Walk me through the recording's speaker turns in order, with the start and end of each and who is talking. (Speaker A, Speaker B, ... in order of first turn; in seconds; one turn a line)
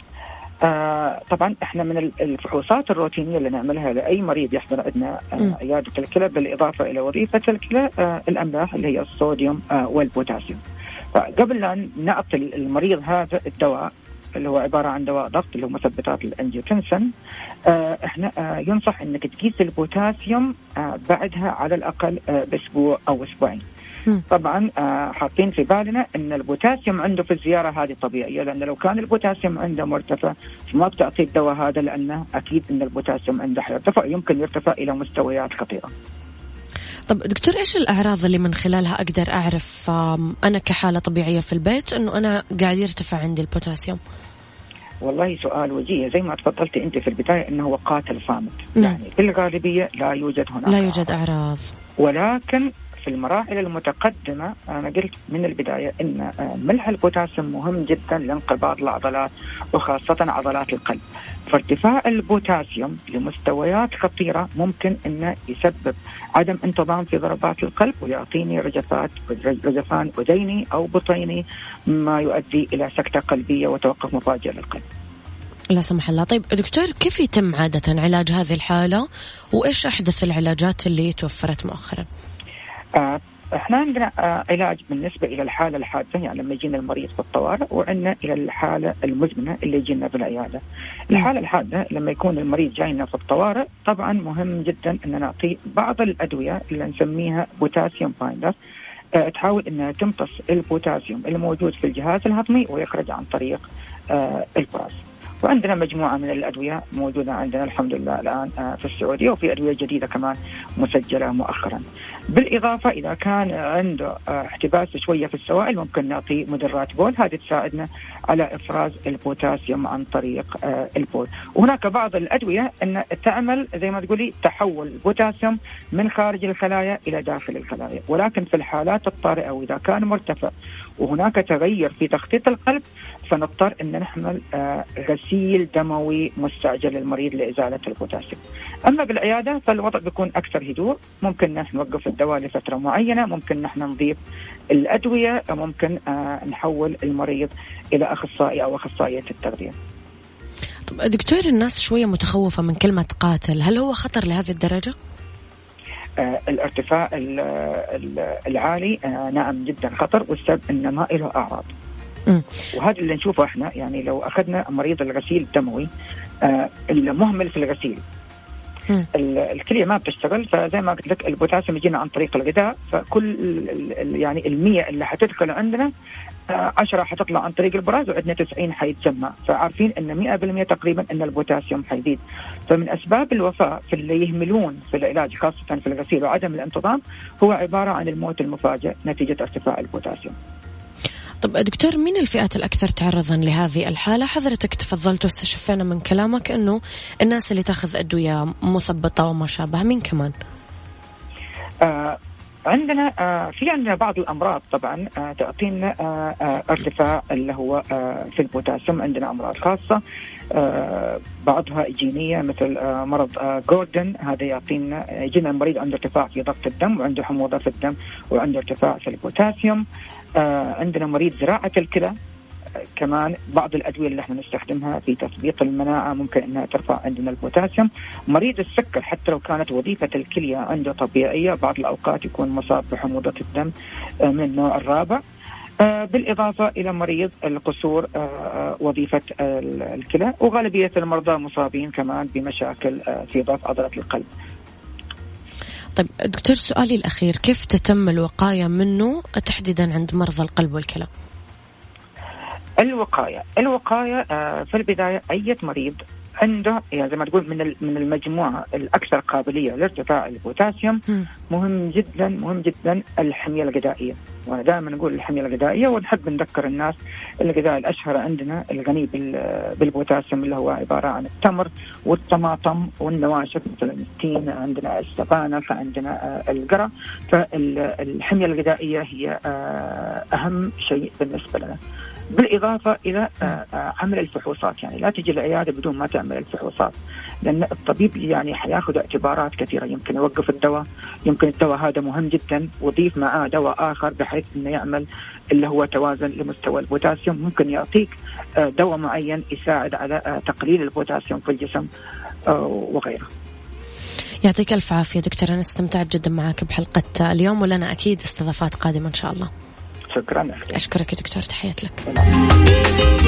Speaker A: 0.6-10.6
Speaker A: 11.1-17.1
Speaker A: 17.7-23.6
Speaker A: 24.3-35.9
Speaker B: 37.1-44.0
Speaker A: 45.0-51.0
Speaker B: 50.7-51.7
Speaker A: 52.0-74.8
Speaker B: 75.7-82.1
Speaker A: 83.0-98.5
Speaker A: 99.2-144.2
Speaker A: 144.7-149.8
Speaker B: 150.9-154.9
Speaker A: 156.2-161.7
Speaker A: 162.7-165.9
Speaker A: 166.4-168.0
Speaker A: 169.1-175.9
Speaker A: 176.5-190.3
Speaker B: 191.4-200.3
Speaker A: 201.8-210.0
Speaker A: 210.5-219.8
Speaker A: 220.4-222.1
Speaker A: 223.0-233.7
Speaker A: 234.2-235.2
Speaker A: 235.8-244.3
Speaker B: 245.9-251.1
Speaker A: 252.8-281.8
Speaker A: 282.3-301.9
Speaker A: 302.5-303.3
Speaker B: 304.4-309.5
Speaker A: 310.1-310.8
Speaker B: 310.7-312.1